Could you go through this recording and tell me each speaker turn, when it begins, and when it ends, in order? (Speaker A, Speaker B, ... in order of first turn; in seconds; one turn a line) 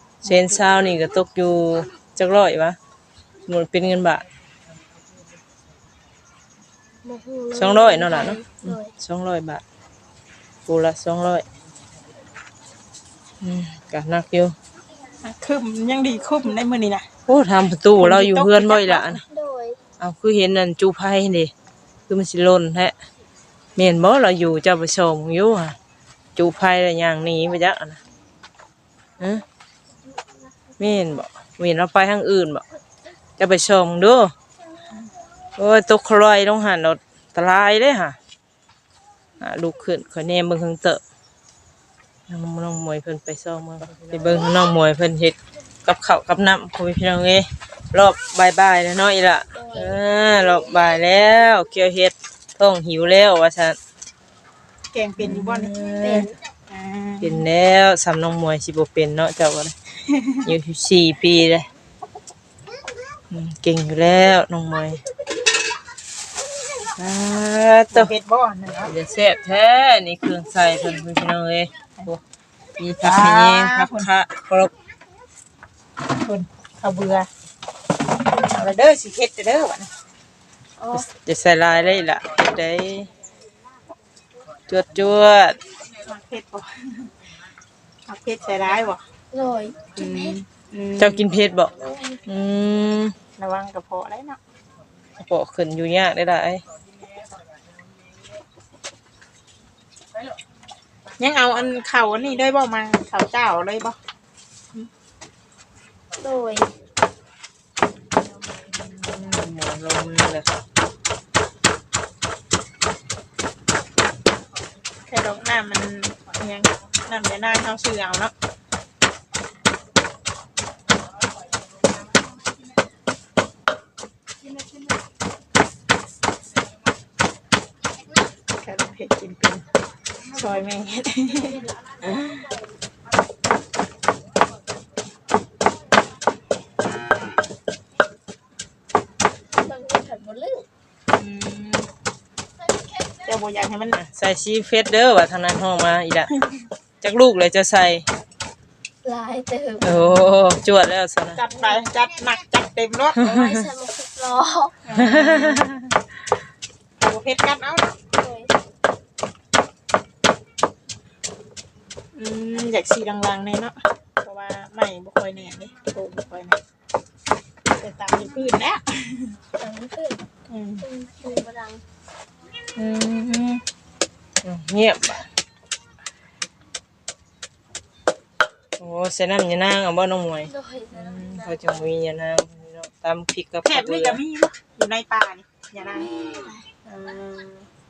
Speaker A: 0.2-2.8
Speaker B: 0.3-0.7
Speaker A: 3.5-4.2
Speaker C: 7.0-8.9
Speaker A: 7.6-9.6
Speaker A: 10.7-11.4
Speaker A: 13.4-14.6
Speaker B: 15.2-17.1
Speaker A: 17.3-19.2
Speaker B: 18.0-19.2
Speaker C: 19.3-19.8
Speaker A: 20.0-21.5
Speaker A: 22.1-22.9
Speaker A: 23.8-25.8
Speaker A: 26.4-28.0
Speaker A: 29.2-29.4
Speaker A: 30.8-32.6
Speaker A: 33.4-34.3
Speaker A: 35.6-38.2
Speaker A: 39.4-41.0
Speaker A: 42.3-53.8
Speaker C: 49.5-50.0
Speaker B: 54.9-55.7
Speaker A: 55.2-56.3
Speaker C: 56.0-56.4
Speaker B: 56.7-57.5
Speaker A: 57.2-59.7
Speaker B: 60.0-60.5
Speaker A: 60.5-61.7
Speaker A: 63.3-65.0
Speaker A: 67.0-68.1
Speaker B: 67.9-68.9
Speaker A: 68.9-72.2
Speaker A: 72.8-74.7
Speaker B: 73.0-74.1
Speaker B: 76.2-77.3
Speaker B: 78.2-79.9
Speaker C: 80.8-81.1
Speaker A: 80.9-83.1
Speaker A: 84.7-85.6
Speaker B: 86.0-87.1
Speaker B: 88.1-89.0
Speaker C: 89.3-90.4
Speaker B: 90.0-91.3
Speaker A: 91.0-91.7
Speaker C: 91.8-92.2
Speaker A: 92.2-93.2
Speaker B: 93.4-94.4
Speaker A: 95.2-96.6
Speaker B: 101.2-104.0
Speaker C: 106.2-106.7
Speaker A: 108.8-110.6
Speaker B: 115.1-118.3
Speaker B: 128.6-129.7
Speaker B: 130.3-131.6
Speaker C: 139.5-140.7
Speaker B: 141.1-141.9
Speaker B: 143.2-144.0
Speaker A: 144.0-146.3
Speaker A: 147.0-148.1
Speaker C: 149.0-150.3
Speaker A: 149.8-151.4
Speaker B: 151.3-153.2
Speaker A: 153.2-153.6
Speaker C: 153.2-154.9
Speaker B: 154.9-155.8
Speaker A: 154.9-155.8
Speaker B: 157.0-158.0
Speaker C: 158.2-158.6
Speaker B: 162.1-166.6
Speaker B: 167.7-169.4
Speaker C: 169.6-170.2
Speaker B: 170.5-170.9
Speaker C: 170.8-171.8
Speaker B: 172.8-173.6
Speaker A: 174.4-175.3
Speaker A: 178.8-184.2
Speaker C: 180.5-181.9
Speaker B: 183.6-186.1
Speaker C: 185.9-186.7
Speaker B: 186.8-187.7